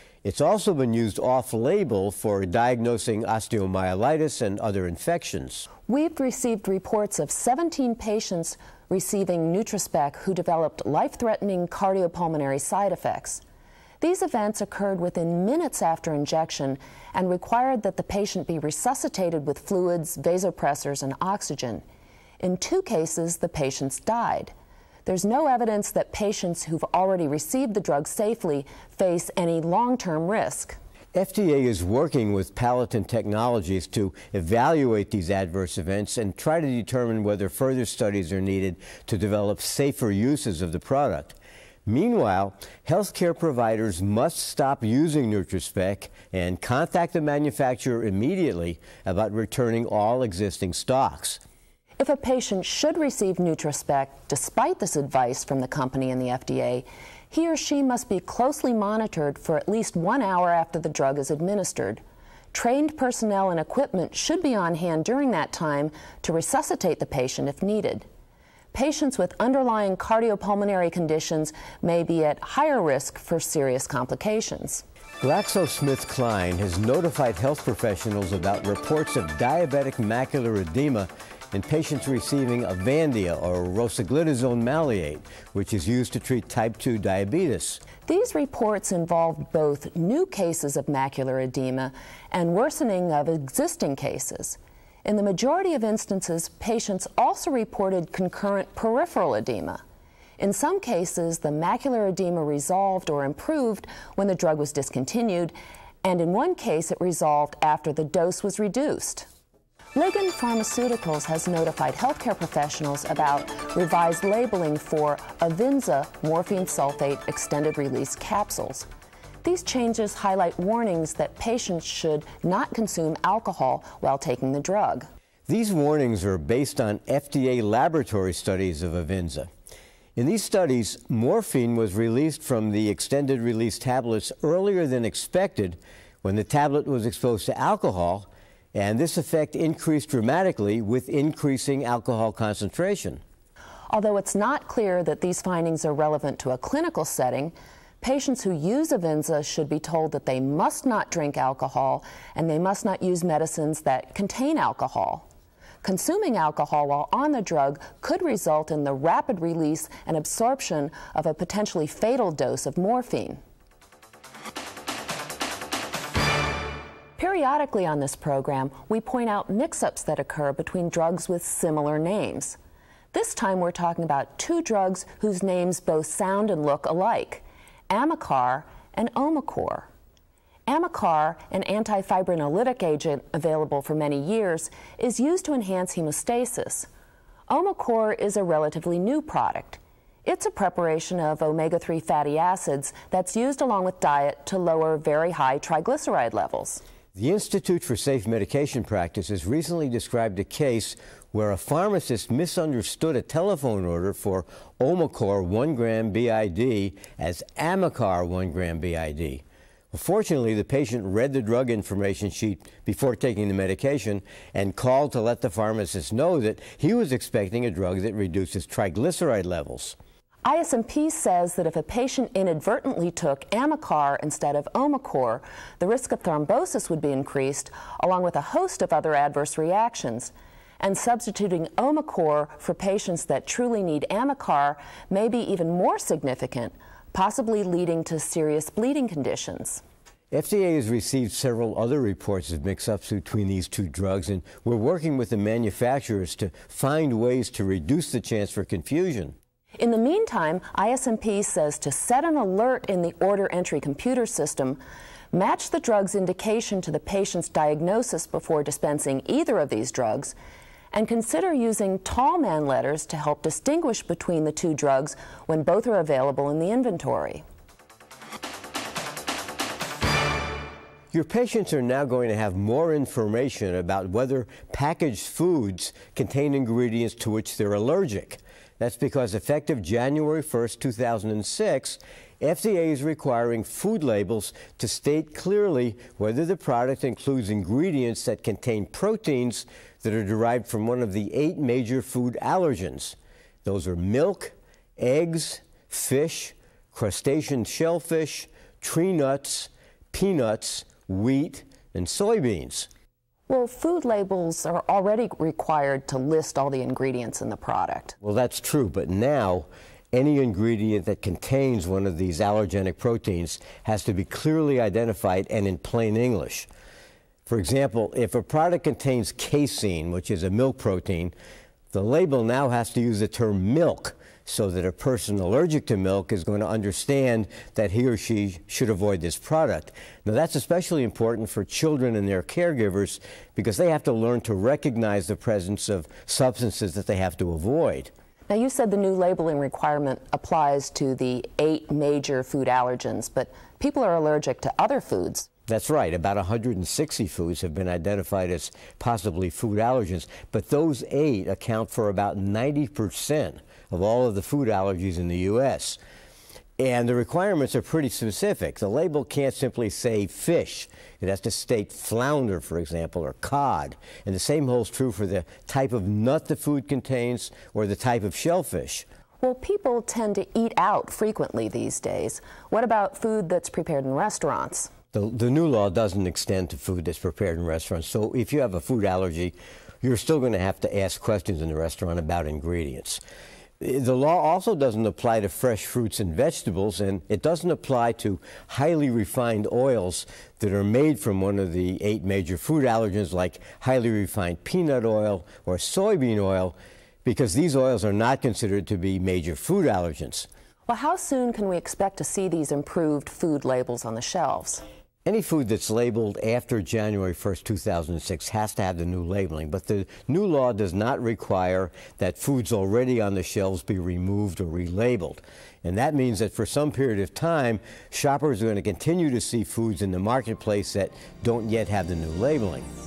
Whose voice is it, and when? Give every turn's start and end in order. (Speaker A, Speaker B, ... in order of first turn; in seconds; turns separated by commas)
Speaker A: 0.2-5.7, Speaker B: 5.9-13.4, Speaker B: 14.0-21.8, Speaker B: 22.4-24.5, Speaker B: 25.0-30.8, Speaker A: 31.1-51.4, Speaker B: 52.0-62.0, Speaker B: 62.5-68.0, Speaker B: 68.7-74.8, Speaker A: 75.2-87.8, Speaker B: 88.0-99.8, Speaker B: 100.4-109.3, Speaker B: 109.9-118.9, Speaker B: 119.4-125.1, Speaker A: 125.5-129.5, Speaker A: 130.2-143.2, Speaker B: 143.9-155.3, Speaker B: 155.8-163.4, Speaker B: 167.2-172.6, Speaker B: 173.1-179.9, Speaker B: 180.7-186.9, Speaker B: 187.5-196.8, Speaker A: 197.1-219.9, Speaker B: 220.4-239.8, Speaker A: 240.3-249.3, Speaker B: 249.8-254.8, Speaker B: 255.3-260.3, Speaker B: 260.9-267.4, Speaker A: 271.1-302.9, Speaker B: 303.5-308.1, Speaker A: 308.2-316.7, Speaker A: 317.4-321.3, Speaker A: 321.9-338.1, Speaker B: 338.5-345.5, Speaker A: 345.7-356.0, Speaker A: 356.8-369.1, Speaker B: 369.4-374.9, Speaker A: 375.1-383.2, Speaker A: 383.8-400.5, Speaker B: 400.9-404.8, Speaker A: 405.2-422.9